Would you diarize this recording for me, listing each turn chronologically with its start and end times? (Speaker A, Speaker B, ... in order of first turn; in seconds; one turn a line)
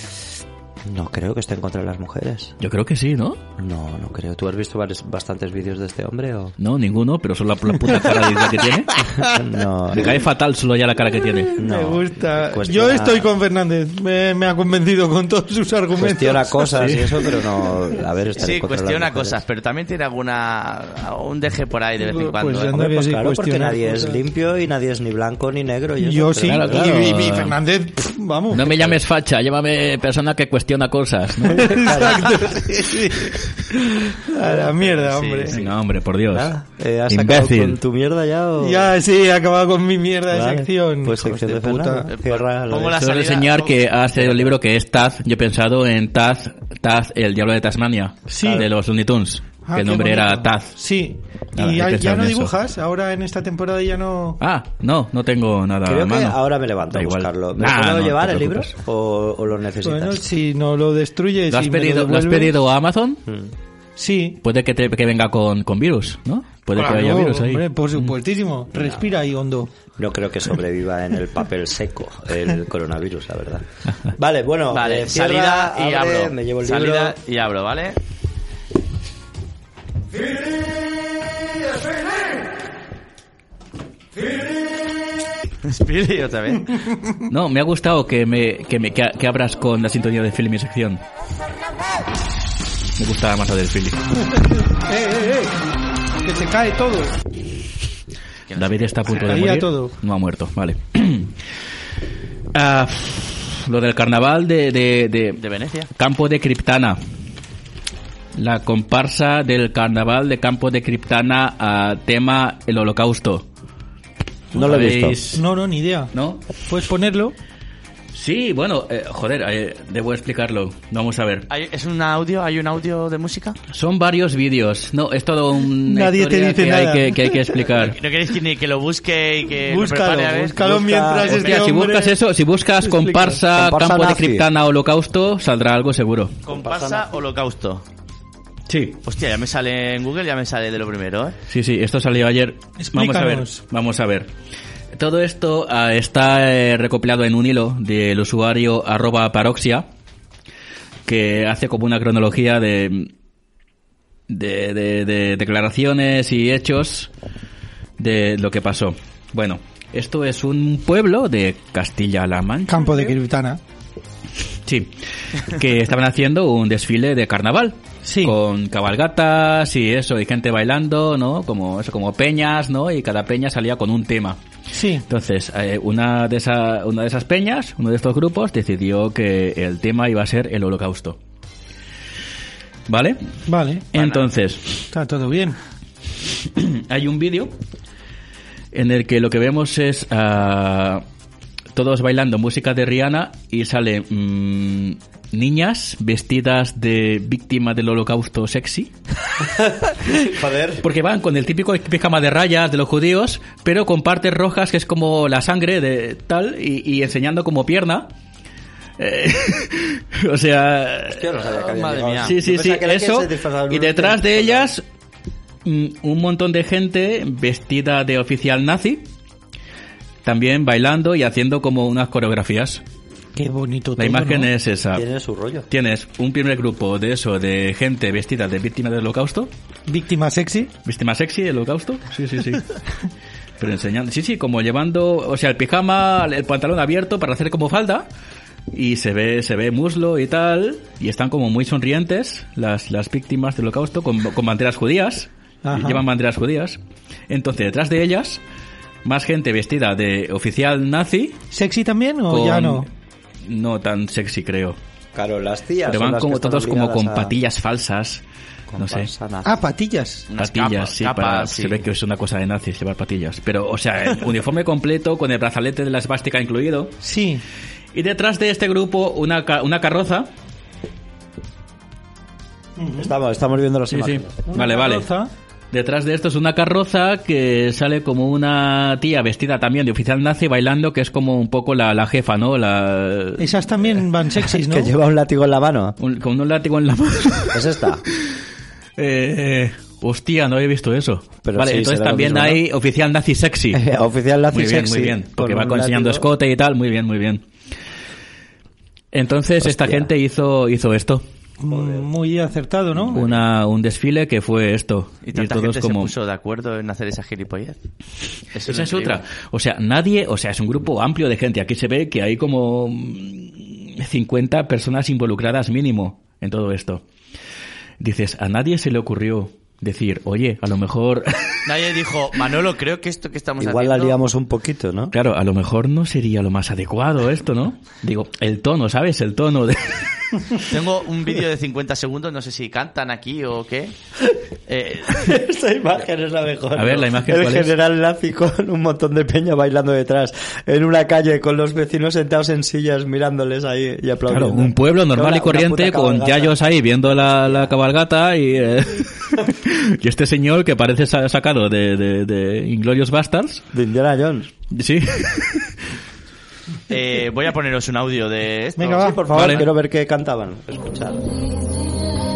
Speaker A: 0.9-2.5
Speaker B: 2.6-3.4
Speaker A: 3.6-6.6
Speaker B: 6.6-8.9
Speaker A: 9.1-10.2
Speaker B: 9.9-11.5
Speaker C: 11.5-16.9
Speaker A: 11.6-13.3
Speaker A: 16.0-19.4
Speaker B: 16.8-17.1
Speaker D: 18.4-22.8
Speaker C: 22.0-24.2
Speaker A: 22.7-27.2
Speaker C: 26.0-29.0
Speaker B: 26.4-27.6
Speaker B: 28.5-31.8
Speaker C: 31.5-35.6
Speaker A: 31.5-32.6
Speaker A: 34.4-34.7
Speaker D: 34.8-35.6
Speaker B: 35.5-36.5
Speaker A: 36.3-38.9
Speaker B: 37.1-37.8
Speaker C: 38.6-42.1
Speaker A: 40.3-43.0
Speaker D: 42.1-43.9
Speaker B: 42.9-50.8
Speaker A: 44.2-44.5
Speaker C: 48.3-48.7
Speaker C: 49.7-54.4
Speaker B: 51.6-52.5
Speaker B: 54.4-58.7
Speaker A: 55.9-60.2
Speaker C: 59.8-62.5
Speaker B: 61.5-63.2
Speaker A: 63.3-63.5
Speaker C: 64.0-64.4
Speaker B: 64.4-68.2
Speaker C: 66.8-69.7
Speaker A: 68.7-69.0
Speaker A: 70.0-77.2
Speaker D: 74.7-78.0
Speaker D: 85.6-86.7
Speaker B: 87.3-91.0
Speaker B: 93.0-94.0
Speaker C: 94.2-95.5
Speaker C: 96.2-97.2
Speaker D: 98.5-99.5
Speaker B: 98.5-101.4
Speaker C: 99.1-99.9
Speaker B: 102.5-105.4
Speaker D: 105.4-105.9
Speaker B: 106.0-107.0
Speaker B: 108.3-113.5
Speaker A: 114.5-115.2
Speaker B: 114.5-115.4
Speaker C: 115.3-116.1
Speaker B: 116.1-116.4
Speaker C: 116.7-117.3
Speaker B: 118.1-121.5
Speaker D: 121.5-123.6
Speaker B: 123.7-128.0
Speaker C: 125.8-127.5
Speaker D: 127.9-131.7
Speaker C: 129.7-132.2
Speaker A: 130.6-131.4
Speaker B: 131.3-136.3
Speaker C: 132.8-133.4
Speaker A: 133.5-134.5
Speaker D: 136.4-137.8
Speaker A: 136.5-137.1
Speaker B: 138.7-139.0
Speaker D: 139.1-141.4
Speaker B: 141.5-144.3
Speaker C: 142.8-143.6
Speaker B: 144.9-149.9
Speaker B: 151.1-153.1
Speaker B: 154.3-157.1
Speaker B: 158.0-163.1
Speaker C: 162.7-163.6
Speaker B: 164.7-174.4
Speaker C: 168.1-168.4
Speaker C: 174.7-175.1
Speaker B: 175.1-181.2
Speaker B: 182.9-183.2
Speaker C: 183.5-183.9
Speaker B: 183.9-184.9
Speaker D: 183.9-184.3
Speaker C: 184.9-185.6
Speaker B: 186.4-187.5
Speaker B: 188.7-191.0
Speaker B: 191.7-198.9
Speaker A: 199.5-200.8
Speaker B: 200.8-208.1
Speaker B: 209.0-211.3
Speaker A: 211.1-214.7
Speaker D: 211.4-212.3
Speaker B: 212.2-214.8
Speaker B: 215.7-219.1
Speaker B: 220.2-222.8
Speaker C: 223.4-224.5
Speaker B: 224.0-225.0
Speaker A: 224.9-225.7
Speaker B: 225.7-229.5
Speaker C: 229.9-230.7
Speaker B: 230.8-232.7
Speaker B: 233.6-238.1
Speaker B: 238.7-248.4
Speaker C: 245.6-246.1
Speaker B: 249.1-251.4
Speaker C: 251.5-252.9
Speaker B: 252.3-252.9
Speaker B: 253.4-254.8
Speaker A: 255.1-257.4
Speaker B: 255.9-258.2
Speaker A: 258.7-259.5
Speaker B: 258.8-259.1
Speaker C: 259.4-260.3
Speaker D: 260.3-261.8
Speaker B: 260.4-266.9
Speaker C: 267.0-267.4
Speaker B: 267.9-270.3
Speaker C: 272.8-273.1
Speaker A: 273.0-274.4
Speaker B: 273.9-275.1
Speaker C: 274.5-275.3
Speaker B: 275.7-283.6
Speaker C: 283.4-284.9
Speaker A: 284.5-286.0
Speaker B: 286.0-288.4
Speaker A: 287.5-288.0
Speaker B: 289.0-293.8
Speaker A: 291.4-292.6
Speaker A: 293.7-296.3
Speaker B: 294.5-297.4
Speaker B: 299.1-301.2
Speaker A: 299.6-300.1
Speaker C: 301.6-303.2
Speaker A: 301.7-302.1
Speaker A: 303.0-303.4
Speaker B: 303.1-306.1
Speaker D: 305.2-307.8
Speaker D: 308.5-309.2
Speaker B: 308.7-317.0
Speaker B: 318.0-321.6
Speaker D: 321.6-324.2
Speaker A: 323.6-325.1
Speaker B: 325.1-330.5
Speaker D: 330.6-333.9
Speaker D: 334.7-335.3
Speaker A: 335.1-347.8
Speaker B: 336.8-337.7
Speaker B: 344.3-353.7
Speaker A: 353.7-354.5
Speaker B: 354.7-355.8
Speaker D: 356.9-359.1
Speaker C: 358.8-359.5
Speaker A: 358.8-361.3
Speaker B: 359.3-359.7